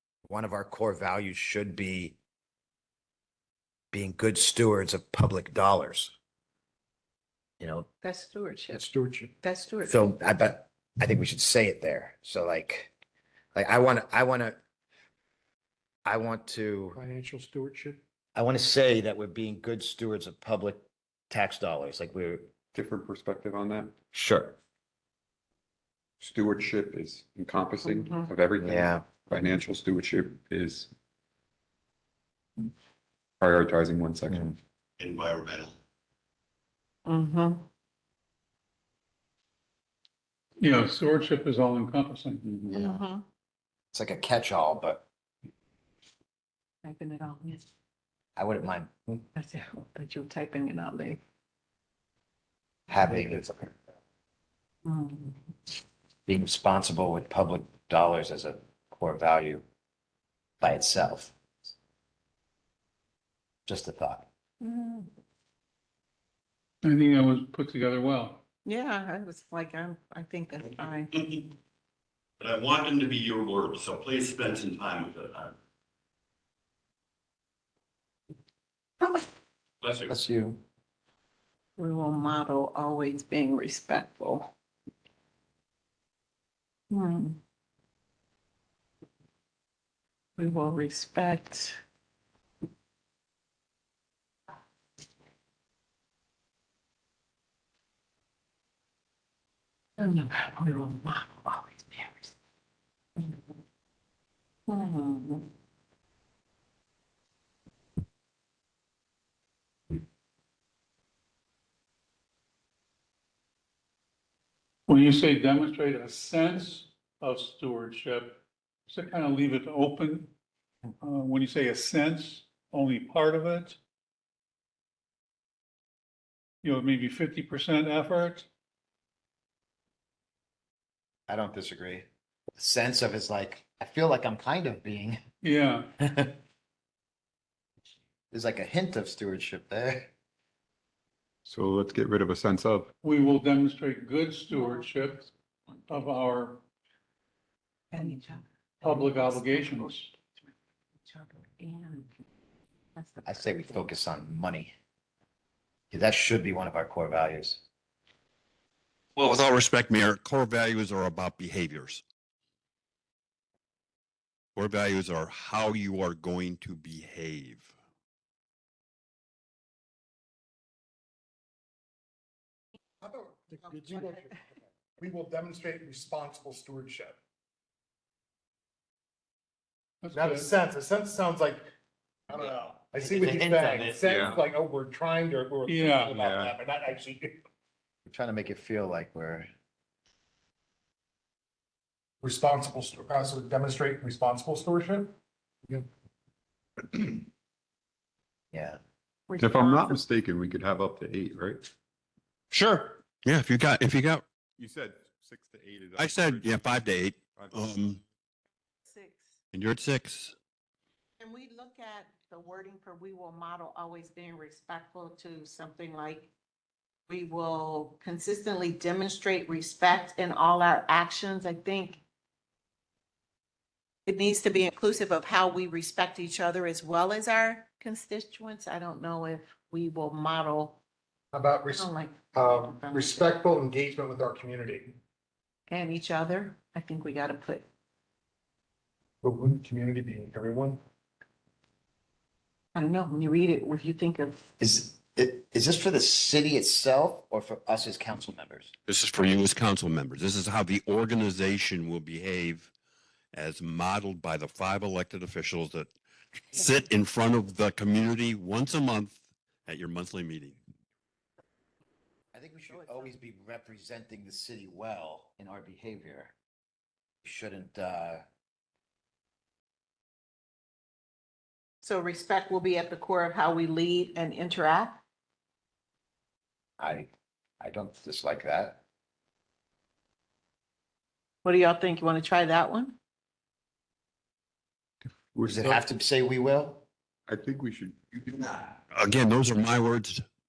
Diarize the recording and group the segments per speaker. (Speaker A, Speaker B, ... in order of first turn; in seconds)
Speaker A: 0.2-2.2, 3.9-6.1, 7.6-7.9, 9.8-12.9, 13.5-14.6, 16.0-17.0, 18.3-22.5, 24.1-24.6, 28.6-29.1, 43.9-45.0, 48.4-49.2, 52.9-53.7, 56.3-59.6, 60.6-61.4, 63.7-64.3, 80.1-80.6, 131.3-135.2, 136.0-136.3, 138.3-140.1, 153.2-154.7, 155.9-157.6, 182.9-184.2, 188.1-189.5, 198.5-198.8, 244.6-248.7, 262.3-266.3, 267.2-268.2, 276.8-277.1, 277.6-278.8, 285.4-286.8
Speaker B: 8.0-8.8, 9.4-10.0, 27.8-28.3, 37.0-37.6, 42.7-43.2, 46.8-47.6, 49.3-51.2, 54.8-55.4, 64.6-65.1, 68.6-71.1, 81.8-84.5, 86.9-87.4, 90.4-91.8, 100.0-102.3, 103.2-103.5, 104.7-105.5, 144.5-145.3, 147.9-150.1, 151.0-152.1, 152.9-153.8, 173.7-174.3, 199.3-200.0, 208.8-209.3, 211.2-216.3, 217.1-222.0, 224.1-230.8, 231.7-233.4, 235.7-237.7, 242.7-244.4, 262.7-263.1, 271.8-275.0, 281.4-282.9
Speaker C: 8.7-9.3, 16.9-18.0, 173.0-174.3, 175.0-177.2, 180.1-181.6, 182.3-187.4, 192.2-195.1, 196.9-197.2, 231.3-235.0, 239.2-240.8
Speaker D: 22.7-23.9, 26.2-30.9, 33.4-34.5, 42.4-43.0, 141.4-142.9, 184.1-184.5, 186.1-186.5, 199.4-201.7, 204.6-206.6, 207.4-207.6, 285.3-285.8, 287.3-288.7
Speaker E: 35.0-35.7, 71.1-71.4, 72.4-75.5, 79.8-80.1, 159.2-162.0, 164.6-167.7, 202.5-204.2, 205.9-208.0, 209.5-210.3, 248.8-252.7, 253.3-255.9, 256.5-260.6, 288.9-290.2
Speaker F: 40.6-42.4, 66.8-68.4, 114.9-120.3, 121.0-123.8, 126.6-128.5, 135.4-135.9, 143.0-145.3, 145.9-146.6, 148.8-150.1, 180.0-180.5, 185.6-186.1